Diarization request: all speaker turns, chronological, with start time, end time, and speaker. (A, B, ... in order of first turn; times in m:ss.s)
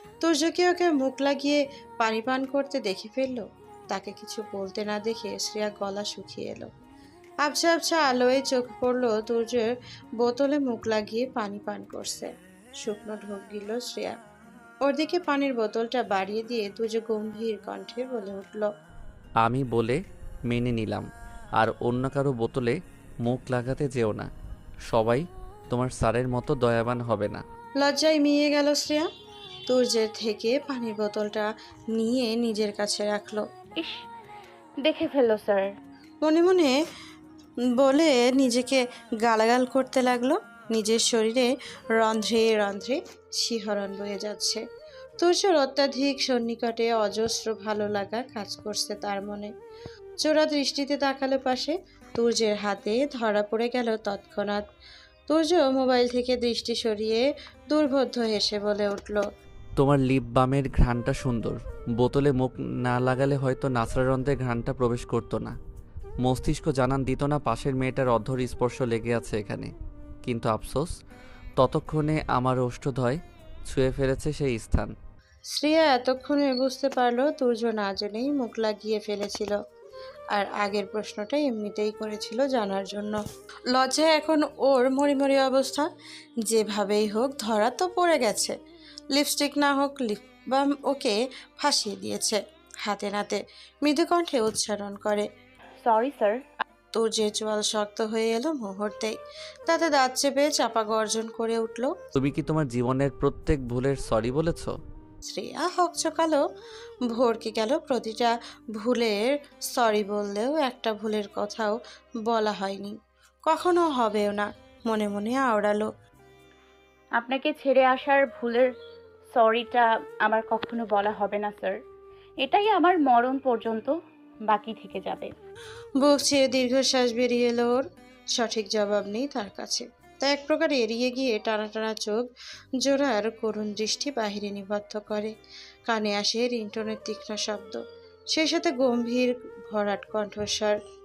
0:00.2-0:06.7 A
0:07.4-0:09.7 A
0:10.2-0:14.2 A
0:14.8-0:18.7 A
0:19.4-0:21.0 B
0:21.6-0:24.3 B
0:24.9-0:27.4 B
0:27.8-0:29.1 A
0:29.7-0:33.4 A
0:34.8-0:35.7 C
0:36.2-0:36.7 A
0:37.8-0:44.6 A
0:45.2-0:49.5 A
0:50.2-0:54.6 A
0:55.3-0:59.2 A
0:59.8-1:05.5 B
1:06.2-1:09.7 B
1:10.2-1:10.9 B
1:11.6-1:14.9 B
1:15.5-1:19.6 A
1:20.3-1:23.2 A
1:23.7-1:25.8 A
1:26.5-1:28.5 A
1:29.1-1:35.2 A
1:35.8-1:36.6 C
1:36.9-1:39.1 A
1:39.7-1:41.9 A
1:42.1-1:44.7 B
1:45.2-1:46.4 A
1:47.1-1:55.9 A
1:57.2-1:58.7 C
1:59.3-2:01.8 C
2:02.4-2:03.9 C
2:04.5-2:05.3 C
2:06.0-2:12.3 A
2:12.8-2:15.3 A
2:15.9-2:17.8 A
2:18.3-2:20.8 A